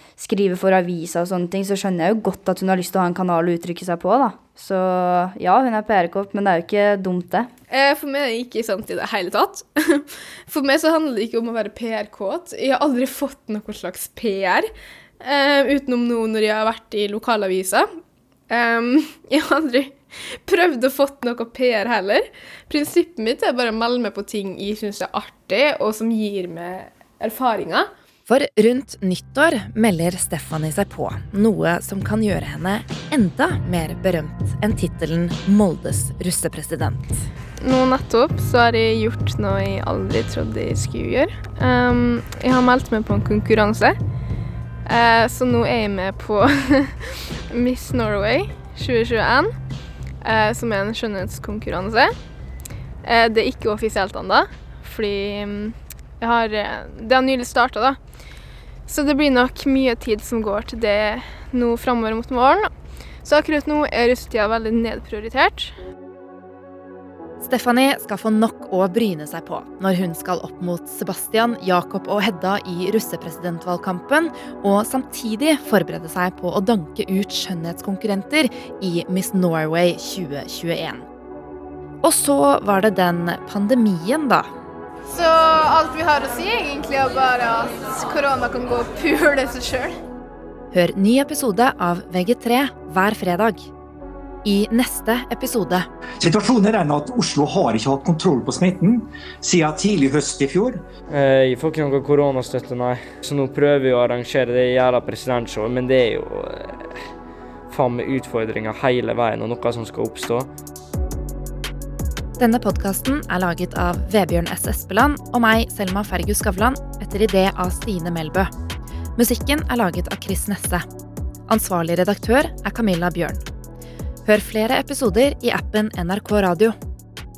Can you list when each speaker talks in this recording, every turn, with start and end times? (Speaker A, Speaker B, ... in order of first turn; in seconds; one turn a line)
Speaker A: 0.2-7.5
Speaker B: 7.7-17.9
Speaker B: 18.5-27.9
Speaker C: 28.3-37.1
Speaker B: 37.6-44.0
Speaker B: 44.8-49.5
Speaker B: 50.2-52.1
Speaker B: 53.0-58.0
Speaker B: 58.9-62.7
Speaker B: 63.2-65.7
Speaker C: 67.4-81.0
Speaker C: 82.0-84.5
Speaker B: 85.1-90.0
Speaker C: 90.7-93.7
Speaker C: 94.4-95.9
Speaker D: 96.2-100.8
Speaker E: 101.1-106.9
Speaker E: 107.7-110.5
Speaker C: 112.4-118.5
Speaker C: 119.2-120.8
Speaker C: 121.5-123.4
Speaker C: 124.2-126.7